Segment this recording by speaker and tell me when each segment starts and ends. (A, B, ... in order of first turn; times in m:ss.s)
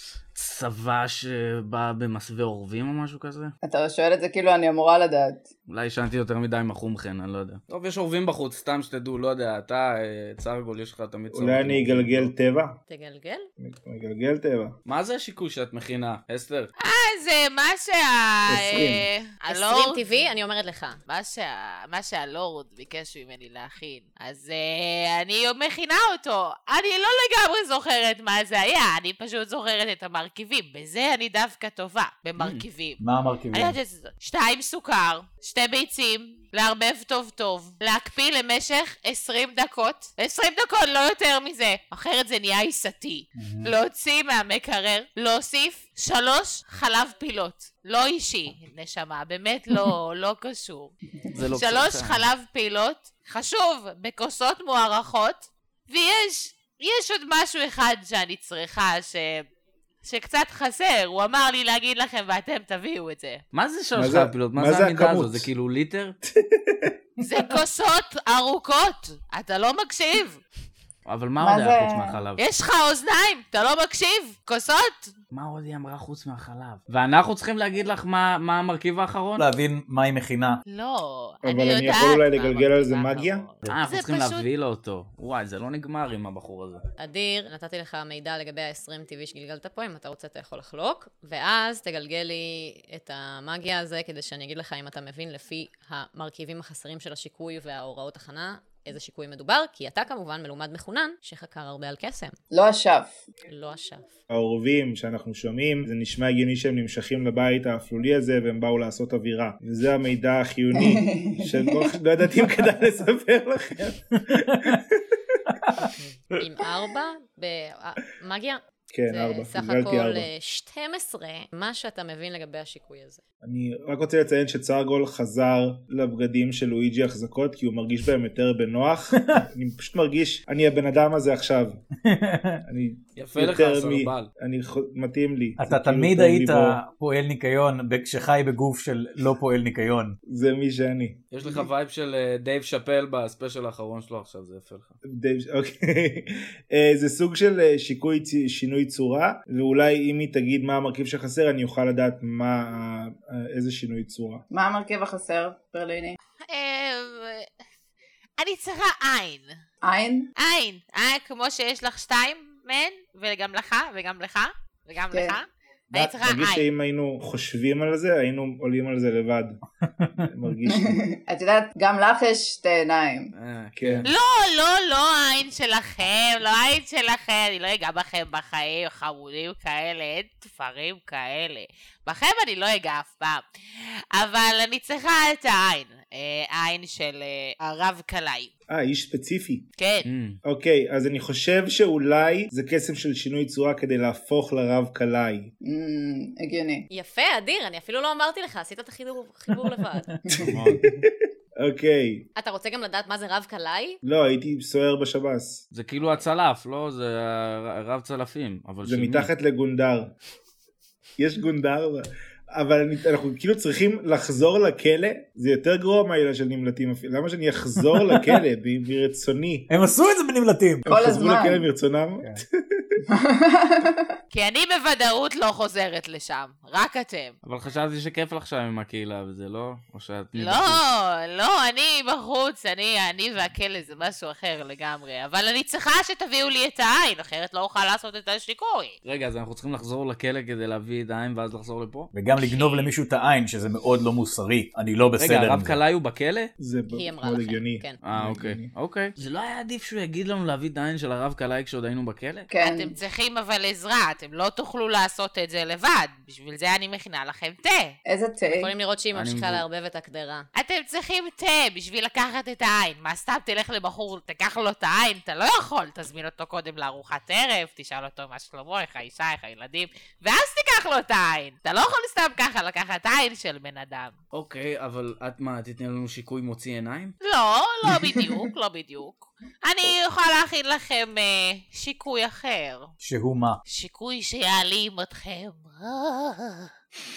0:00.3-0:03.5 A
0:03.6-0:05.5 B
0:05.7-0:12.3 A
0:11.3-0:12.8 C
0:12.9-0:13.5 D
0:13.6-0:14.8 C
0:14.9-0:16.7 A
0:16.8-0:20.1 E
0:18.5-0:19.0 C
0:19.5-0:21.0 D
0:21.1-0:33.0 E
0:32.4-0:32.6 A
0:33.0-0:33.8 F
0:33.5-0:50.9 E
0:43.4-0:43.7 F
0:51.3-0:52.3 A
0:51.5-0:59.4 E
1:00.0-1:03.4 E
1:03.5-1:06.2 A
1:04.0-1:05.5 C
1:06.3-1:07.2 C
1:07.2-1:10.4 E
1:11.0-1:12.4 A
1:11.4-1:12.2 B
1:12.4-1:15.1 E
1:15.3-1:19.5 A
1:19.4-1:20.6 F
1:20.7-1:24.5 E
1:21.4-1:23.5 C
1:23.7-1:26.8 A
1:27.0-1:42.4 D
1:42.5-1:43.2 B
1:43.5-1:44.1 D
1:44.3-1:55.2 C
1:50.8-1:51.9 B
1:54.3-1:54.8 F
1:55.8-2:03.2 D
1:58.9-2:00.3 C
2:03.4-2:11.8 C
2:12.0-2:12.6 F
2:12.7-2:16.8 C
2:13.2-2:14.3 A
2:15.6-2:20.2 F
2:20.3-2:21.7 C
2:21.3-2:25.0 A
2:25.1-2:34.4 C
2:34.5-2:36.2 B
2:36.4-2:37.5 E
2:38.4-2:39.6 E
2:39.8-2:40.3 B
2:40.4-2:46.7 E
2:45.9-2:49.6 C
2:50.0-2:50.3 F
2:50.2-2:51.0 C
2:50.7-2:53.3 B
2:53.4-2:54.1 A
2:53.8-2:54.1 C
2:54.0-3:03.4 E
3:04.1-3:08.5 E
3:08.7-3:09.6 C
3:09.8-3:10.1 E
3:10.0-3:10.4 A
3:10.4-3:15.5 C
3:15.6-3:16.9 B
3:16.9-3:20.1 D
3:20.3-3:22.3 C
3:20.5-3:20.8 A
3:22.4-3:24.0 D
3:24.0-3:25.6 C
3:25.7-3:29.3 A
3:28.8-3:30.1 C
3:31.2-3:39.7 C
3:38.0-3:38.3 F
3:39.7-3:40.8 F
3:40.8-3:43.0 C
3:40.9-3:41.7 B
3:43.1-3:44.1 B
3:44.3-3:47.4 E
3:47.4-3:50.8 A
3:50.4-3:59.0 E
3:59.0-4:02.1 A
4:02.1-4:05.8 F
4:02.4-4:02.9 E
4:05.2-4:06.5 A
4:06.6-4:08.7 C
4:06.9-4:08.0 D
4:08.0-4:12.5 A
4:12.5-4:13.0 B
4:12.6-4:17.9 E
4:18.1-4:18.7 B
4:18.5-4:20.5 D
4:19.1-4:19.6 A
4:20.6-4:34.2 E
4:34.3-4:37.2 A
4:37.2-4:42.9 E
4:43.0-4:43.6 F
4:43.7-4:46.7 E